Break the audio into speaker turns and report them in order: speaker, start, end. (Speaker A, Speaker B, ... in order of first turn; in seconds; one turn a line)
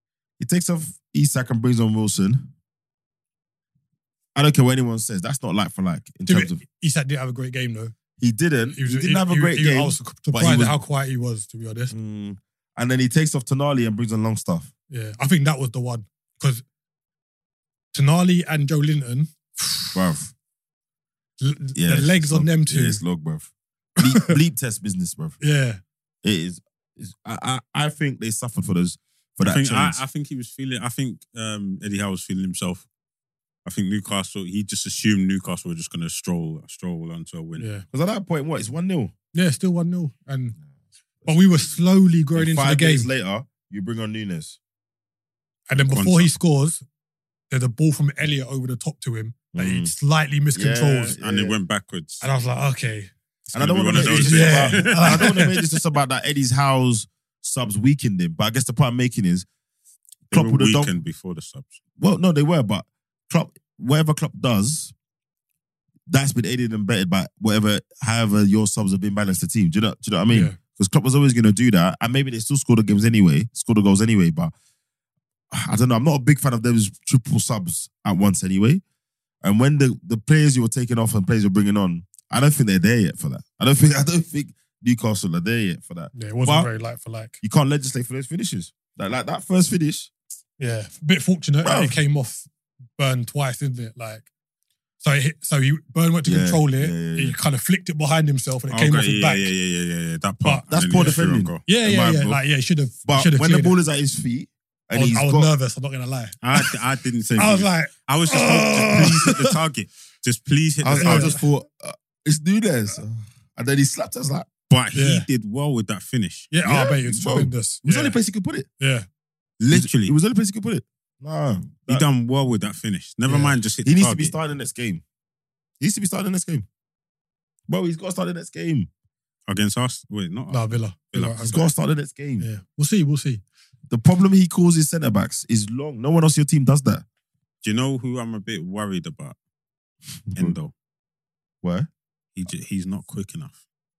Speaker A: 0.4-2.5
Speaker A: 4.3-6.6
Speaker B: 6.3-7.9
Speaker A: 8.2-10.8
Speaker B: 8.7-11.9
Speaker A: 11.9-14.7
Speaker B: 14.9-16.6
Speaker B: 17.9-20.0
Speaker A: 19.9-20.3
Speaker B: 21.4-23.0
Speaker A: 21.8-25.4
Speaker B: 24.0-24.4
Speaker B: 25.4-25.8
Speaker A: 26.2-30.0
Speaker C: 29.4-32.9
Speaker C: 33.7-37.7
Speaker B: 37.6-37.9
Speaker A: 37.9-39.1
Speaker B: 39.3-40.6
Speaker B: 41.3-43.1
Speaker A: 42.4-44.6
Speaker B: 45.7-46.9
Speaker C: 45.8-46.3
Speaker B: 47.5-51.2
Speaker A: 49.5-49.9
Speaker A: 50.5-51.6
Speaker C: 51.2-52.3
Speaker B: 52.2-53.1
Speaker C: 53.5-55.6
Speaker A: 53.5-59.5
Speaker B: 53.9-55.5
Speaker A: 60.3-60.9
Speaker C: 60.3-61.8
Speaker A: 62.0-64.9
Speaker A: 66.1-74.5
Speaker B: 70.3-70.6
Speaker A: 75.5-78.8
Speaker A: 79.4-86.7
Speaker B: 86.1-87.4
Speaker A: 87.4-90.1
Speaker B: 90.6-94.3
Speaker A: 91.6-92.0
Speaker B: 95.0-99.5
Speaker A: 96.3-97.4
Speaker C: 98.7-101.6
Speaker B: 100.4-103.8
Speaker A: 100.7-102.4
Speaker A: 103.0-105.5
Speaker B: 104.9-106.8
Speaker C: 106.4-111.4
Speaker B: 107.3-109.6
Speaker A: 110.8-114.5
Speaker B: 111.0-111.4
Speaker C: 114.7-116.5
Speaker B: 114.9-115.3
Speaker B: 116.5-118.2
Speaker A: 116.6-118.7
Speaker B: 118.8-119.1
Speaker C: 119.6-120.2
Speaker A: 119.7-122.1
Speaker C: 121.9-124.3
Speaker B: 123.3-123.6
Speaker A: 123.8-125.0
Speaker A: 125.8-126.7
Speaker A: 127.7-128.9
Speaker C: 129.5-131.5
Speaker B: 130.5-131.7
Speaker A: 131.4-132.5
Speaker B: 132.4-133.4
Speaker A: 133.9-137.1
Speaker C: 137.6-139.4
Speaker A: 140.3-140.6
Speaker C: 140.3-140.7
Speaker A: 141.6-141.9
Speaker C: 142.4-143.6